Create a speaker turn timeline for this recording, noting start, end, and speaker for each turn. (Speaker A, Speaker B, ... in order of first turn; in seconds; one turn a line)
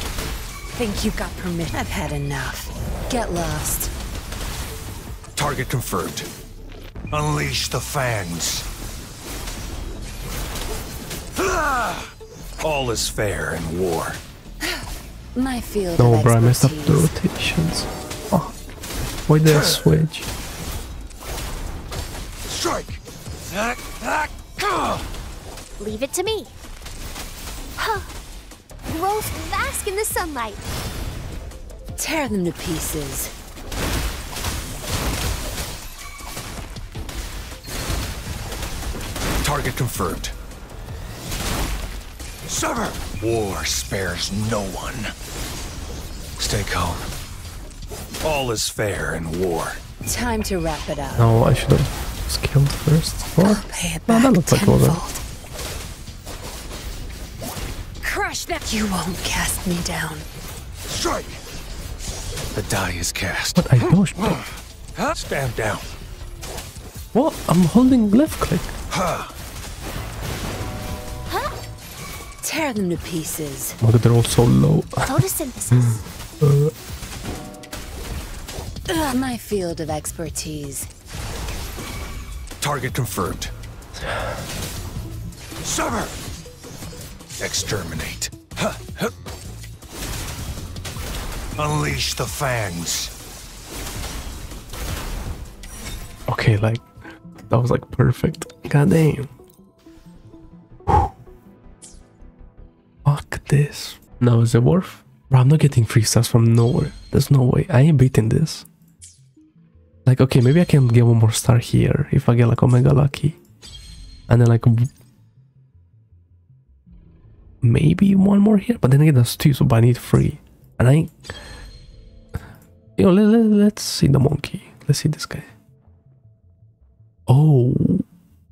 Speaker A: 0.7-3.9
Speaker B: 5.3-6.3
Speaker B: 7.1-8.7
Speaker B: 11.4-12.1
Speaker B: 12.6-14.2
Speaker A: 15.3-17.1
Speaker C: 16.0-18.5
Speaker C: 19.2-20.3
Speaker B: 22.5-25.0
Speaker D: 25.8-26.5
Speaker D: 27.8-28.1
Speaker D: 28.9-30.6
Speaker A: 32.0-33.3
Speaker B: 39.4-40.3
Speaker B: 42.5-45.1
Speaker B: 46.4-47.1
Speaker B: 48.2-49.8
Speaker A: 50.1-51.3
Speaker C: 51.2-55.0
Speaker A: 53.4-55.2
Speaker A: 58.0-60.3
Speaker B: 60.9-61.4
Speaker B: 62.5-63.6
Speaker C: 63.6-64.4
Speaker B: 65.0-65.9
Speaker C: 67.1-68.8
Speaker B: 68.9-69.3
Speaker D: 71.3-71.5
Speaker A: 72.4-73.8
Speaker C: 73.8-76.7
Speaker D: 75.0-76.0
Speaker A: 78.9-80.9
Speaker B: 82.6-83.5
Speaker B: 85.6-86.2
Speaker B: 87.4-89.1
Speaker B: 91.6-93.1
Speaker C: 96.3-96.8
Speaker C: 97.4-99.3
Speaker C: 100.9-101.1
Speaker C: 103.0-108.7
Speaker C: 110.0-113.4
Speaker C: 114.3-114.9
Speaker C: 117.6-121.2
Speaker C: 123.0-125.5
Speaker C: 127.3-128.0